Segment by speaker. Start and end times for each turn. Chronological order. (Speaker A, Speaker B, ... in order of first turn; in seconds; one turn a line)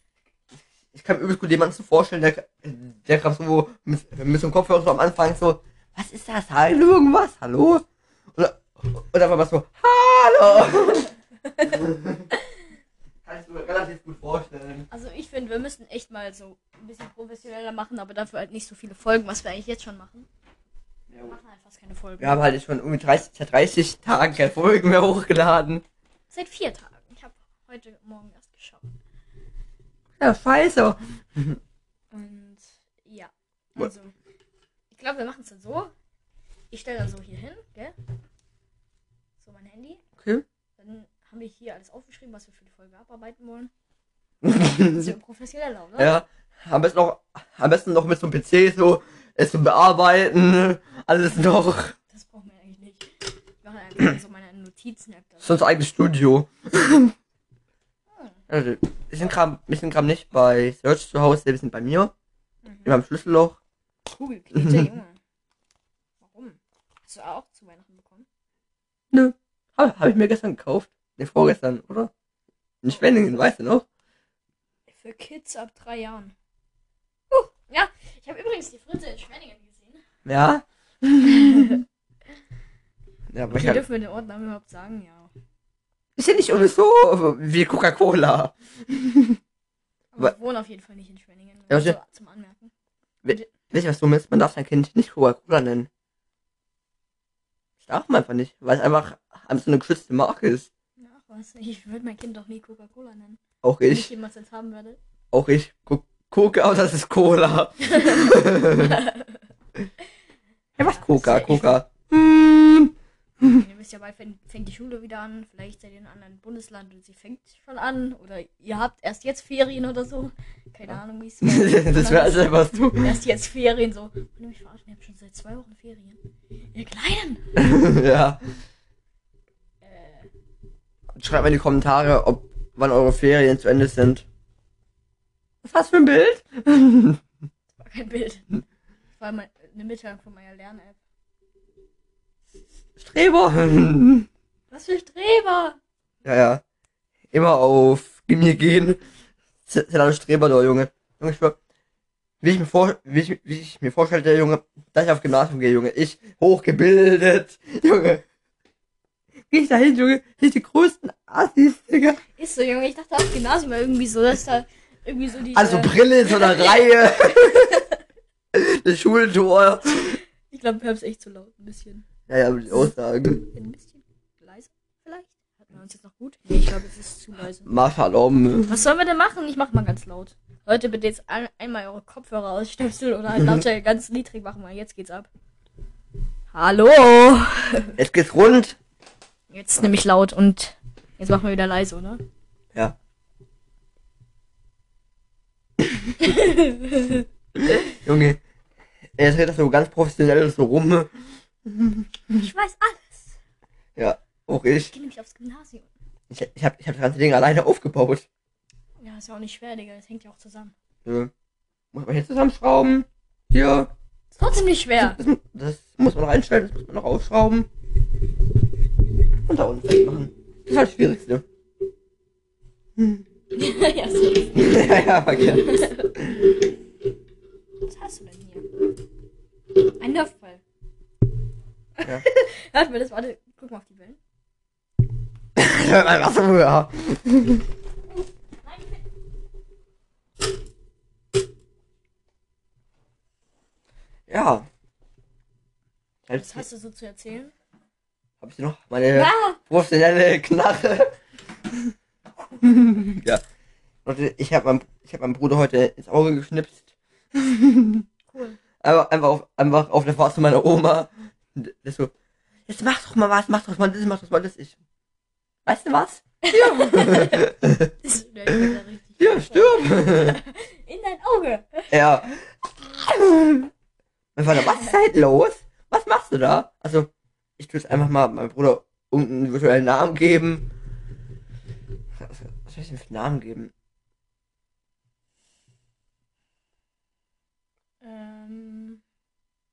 Speaker A: 0.9-11.1
Speaker A: 11.6-12.3
Speaker A: 13.2-14.8
Speaker B: 14.9-20.3
Speaker B: 21.2-22.4
Speaker A: 22.2-25.8
Speaker B: 26.3-28.9
Speaker A: 30.2-31.6
Speaker B: 32.1-34.1
Speaker B: 34.9-35.9
Speaker B: 36.7-37.9
Speaker B: 39.4-40.0
Speaker B: 40.8-43.7
Speaker A: 44.4-45.1
Speaker B: 44.8-46.1
Speaker A: 46.0-51.9
Speaker B: 52.1-53.1
Speaker B: 53.6-55.7
Speaker A: 55.4-57.1
Speaker A: 58.5-62.1
Speaker B: 62.6-62.9
Speaker A: 62.8-63.6
Speaker B: 64.1-65.2
Speaker A: 64.5-64.9
Speaker B: 66.2-68.3
Speaker A: 69.1-72.1
Speaker A: 72.8-73.8
Speaker B: 72.9-73.4
Speaker B: 74.9-76.3
Speaker B: 77.3-80.0
Speaker A: 80.2-81.8
Speaker B: 81.3-81.8
Speaker A: 83.3-83.8
Speaker B: 83.5-85.3
Speaker A: 86.2-89.4
Speaker B: 90.1-92.7
Speaker A: 91.7-92.0
Speaker A: 93.2-95.9
Speaker A: 97.8-100.7
Speaker B: 101.0-105.0
Speaker A: 103.6-104.1
Speaker A: 105.3-109.0
Speaker B: 107.9-109.4
Speaker A: 110.8-113.6
Speaker B: 110.8-111.8
Speaker B: 113.5-126.2
Speaker A: 120.9-123.2
Speaker B: 126.7-127.4
Speaker A: 127.5-128.4
Speaker B: 129.8-130.3
Speaker A: 131.2-134.2
Speaker A: 135.6-137.2
Speaker B: 137.7-138.5
Speaker B: 139.2-141.0
Speaker A: 143.0-144.3
Speaker B: 144.7-145.8
Speaker A: 146.2-146.6
Speaker A: 147.3-149.0
Speaker A: 149.7-151.6
Speaker A: 152.4-158.2
Speaker A: 159.5-162.2
Speaker B: 162.3-168.0
Speaker A: 165.5-167.8
Speaker A: 168.5-170.2
Speaker B: 170.5-172.0
Speaker A: 172.3-173.4
Speaker B: 172.7-177.7
Speaker A: 177.6-178.8
Speaker B: 178.7-185.3
Speaker B: 186.5-187.9
Speaker A: 188.0-188.8
Speaker B: 189.5-192.2
Speaker B: 196.2-197.2
Speaker A: 197.6-198.4
Speaker A: 199.2-201.1
Speaker A: 201.6-202.1
Speaker B: 202.3-203.3
Speaker A: 204.0-204.9
Speaker B: 204.9-205.9
Speaker A: 206.3-208.3
Speaker B: 209.0-210.7
Speaker A: 211.0-211.3
Speaker A: 211.9-213.9
Speaker B: 214.3-215.2
Speaker A: 215.0-217.7
Speaker A: 219.4-221.4
Speaker A: 223.0-223.2
Speaker B: 223.5-225.0
Speaker A: 224.5-225.8
Speaker B: 225.6-226.1
Speaker B: 227.8-228.7
Speaker B: 229.8-230.6
Speaker B: 232.0-234.2
Speaker A: 235.6-237.6
Speaker B: 238.6-239.0
Speaker A: 244.3-244.7
Speaker A: 246.3-246.6
Speaker B: 246.3-247.5
Speaker A: 248.4-251.1
Speaker B: 249.1-249.6
Speaker A: 252.6-253.4
Speaker A: 254.0-258.0
Speaker B: 258.3-258.6
Speaker A: 258.8-262.1
Speaker A: 262.7-264.7
Speaker A: 265.6-267.9
Speaker B: 266.4-271.9
Speaker A: 268.5-270.4
Speaker A: 271.9-273.7
Speaker A: 274.4-280.7
Speaker A: 282.2-283.7
Speaker B: 288.0-289.0